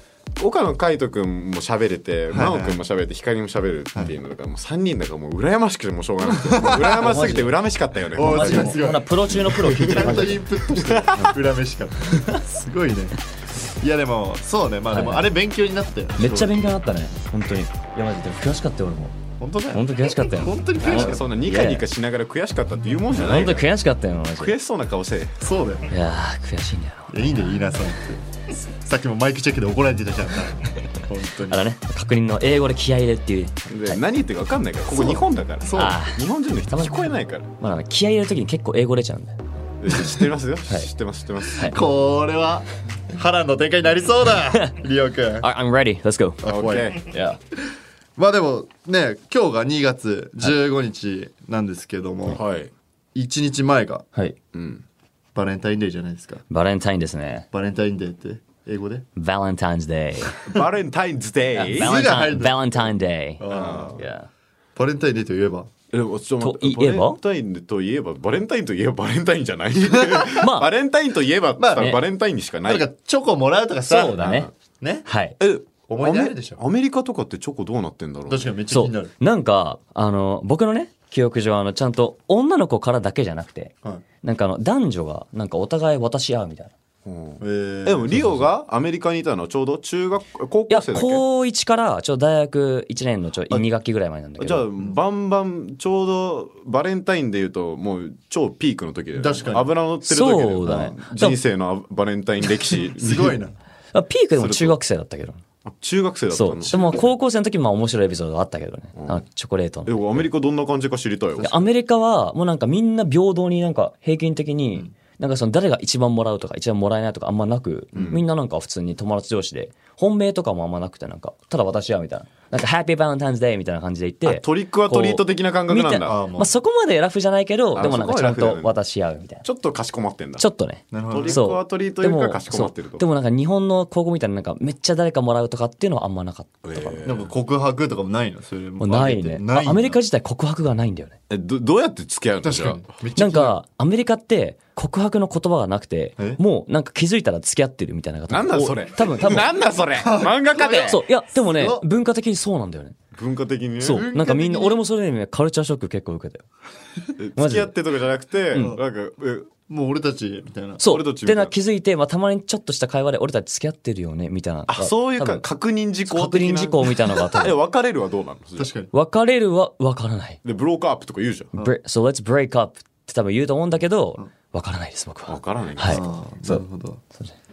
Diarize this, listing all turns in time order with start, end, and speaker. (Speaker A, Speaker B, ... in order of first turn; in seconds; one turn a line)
Speaker A: 0.4-8.8
Speaker B: 2.3-2.8
Speaker B: 6.2-7.1
Speaker C: 6.9-7.6
Speaker B: 8.1-13.2
Speaker C: 8.2-10.4
Speaker A: 9.7-10.2
Speaker A: 10.8-11.3
Speaker B: 13.8-16.6
Speaker C: 14.9-15.2
Speaker C: 16.2-19.1
Speaker B: 19.4-21.3
Speaker C: 19.7-21.9
Speaker A: 20.8-23.6
Speaker C: 23.1-24.6
Speaker A: 24.3-25.4
Speaker B: 25.4-25.9
Speaker C: 25.9-27.6
Speaker B: 27.1-28.2
Speaker B: 28.8-31.6
Speaker C: 31.5-34.0
Speaker A: 33.7-37.5
Speaker B: 34.9-36.0
Speaker C: 35.7-39.3
Speaker A: 39.8-41.7
Speaker B: 41.6-45.5
Speaker C: 45.4-46.4
Speaker B: 46.4-47.0
Speaker A: 46.5-47.1
Speaker C: 47.0-47.4
Speaker B: 48.2-52.4
Speaker A: 52.3-52.7
Speaker B: 53.1-54.0
Speaker A: 54.5-54.8
Speaker B: 55.3-56.4
Speaker C: 56.5-57.5
Speaker B: 57.5-59.0
Speaker C: 59.1-60.4
Speaker A: 60.5-62.0
Speaker C: 61.5-64.3
Speaker B: 61.7-64.0
Speaker A: 63.5-64.0
Speaker B: 64.8-65.7
Speaker A: 65.9-72.9
Speaker C: 66.4-67.2
Speaker B: 69.8-70.4
Speaker C: 70.4-70.7
Speaker B: 71.6-72.0
Speaker B: 72.6-75.1
Speaker C: 73.8-74.5
Speaker A: 74.0-74.5
Speaker C: 75.0-75.4
Speaker A: 75.4-78.5
Speaker B: 75.9-76.6
Speaker B: 78.3-79.1
Speaker C: 78.7-86.7
Speaker A: 87.0-91.2
Speaker B: 87.4-88.5
Speaker C: 90.7-94.7
Speaker A: 94.4-103.4
Speaker B: 99.2-99.7
Speaker C: 100.0-101.4
Speaker B: 103.0-103.5
Speaker C: 103.9-105.4
Speaker A: 104.3-104.8
Speaker A: 105.6-107.1
Speaker C: 106.3-110.2
Speaker A: 109.0-109.2
Speaker A: 109.8-111.7
Speaker C: 111.4-129.4
Speaker A: 117.9-118.2
Speaker A: 124.2-126.2
Speaker B: 126.0-126.5
Speaker A: 127.8-128.7
Speaker A: 129.4-130.4
Speaker C: 130.4-137.1
Speaker B: 130.9-131.4
Speaker A: 131.1-133.1
Speaker A: 136.6-137.3
Speaker B: 137.0-140.0
Speaker C: 138.8-141.2
Speaker A: 141.3-142.8
Speaker B: 142.4-143.6
Speaker C: 143.2-149.5
Speaker A: 148.3-151.0
Speaker B: 149.9-151.8
Speaker C: 150.8-152.9
Speaker A: 153.1-154.0
Speaker C: 153.8-156.4
Speaker B: 153.8-154.8
Speaker A: 157.2-159.5
Speaker C: 157.4-157.8
Speaker C: 158.5-158.8
Speaker B: 159.7-160.8
Speaker C: 160.8-165.4
Speaker A: 160.8-161.5
Speaker A: 164.7-168.7
Speaker C: 166.0-167.6
Speaker B: 168.6-168.9
Speaker C: 168.9-170.4
Speaker A: 170.4-171.5
Speaker C: 171.5-177.3
Speaker A: 175.3-176.0
Speaker B: 175.8-177.0